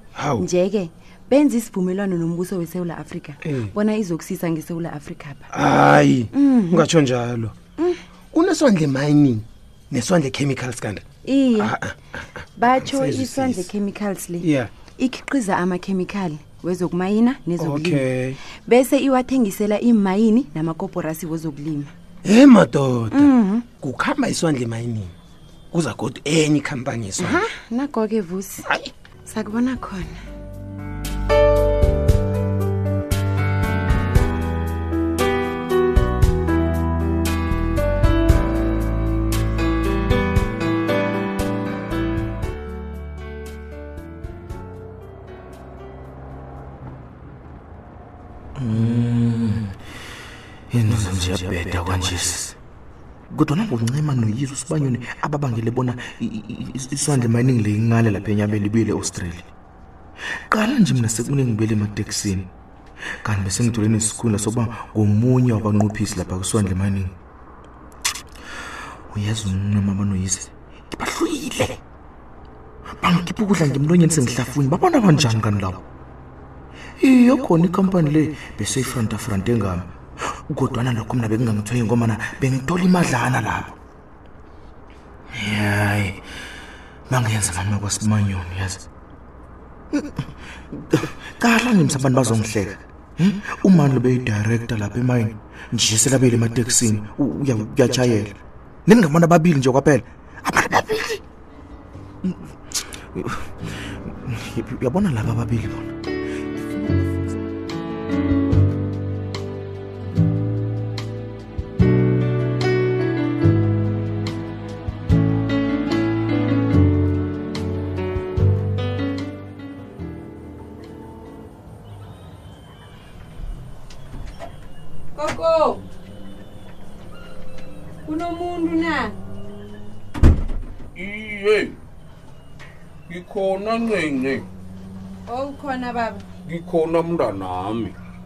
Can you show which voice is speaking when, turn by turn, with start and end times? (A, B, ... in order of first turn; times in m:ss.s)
0:00.1-0:00.5 A
0:00.4-0:05.4 B
0:03.4-0:03.7 A
0:05.5-0:07.6 A
0:06.3-0:06.9 B
0:08.3-0:11.0 A
0:11.2-0:11.7 B
0:11.6-0:13.7 A
0:12.6-0:21.9 B
0:14.4-0:14.7 A
0:17.6-0:18.4 A
0:22.2-0:25.1 A
0:23.1-0:23.6 B
0:25.7-0:27.4 A
0:27.2-0:28.7 B
0:28.6-0:28.9 A
0:29.2-0:30.2 B
0:48.6-0:49.7 C
0:50.7-0:52.6 C
0:53.3-0:59.5 C
1:00.5-1:02.5 C
1:03.2-1:07.1 C
1:09.1-1:10.5 C
1:10.9-1:11.7 A
1:13.0-1:15.8 C
1:17.0-1:23.7 C
1:25.3-1:26.2 C
1:27.1-1:28.8 C
1:29.9-1:41.2 C
1:42.2-1:42.6 C
1:43.1-1:46.0 C
1:46.6-1:47.1 C
2:05.2-2:05.8 B
2:08.1-2:09.2 B
2:10.9-2:11.8 D
2:13.1-2:14.4 D
2:15.3-2:16.2 B
2:16.4-2:18.0 D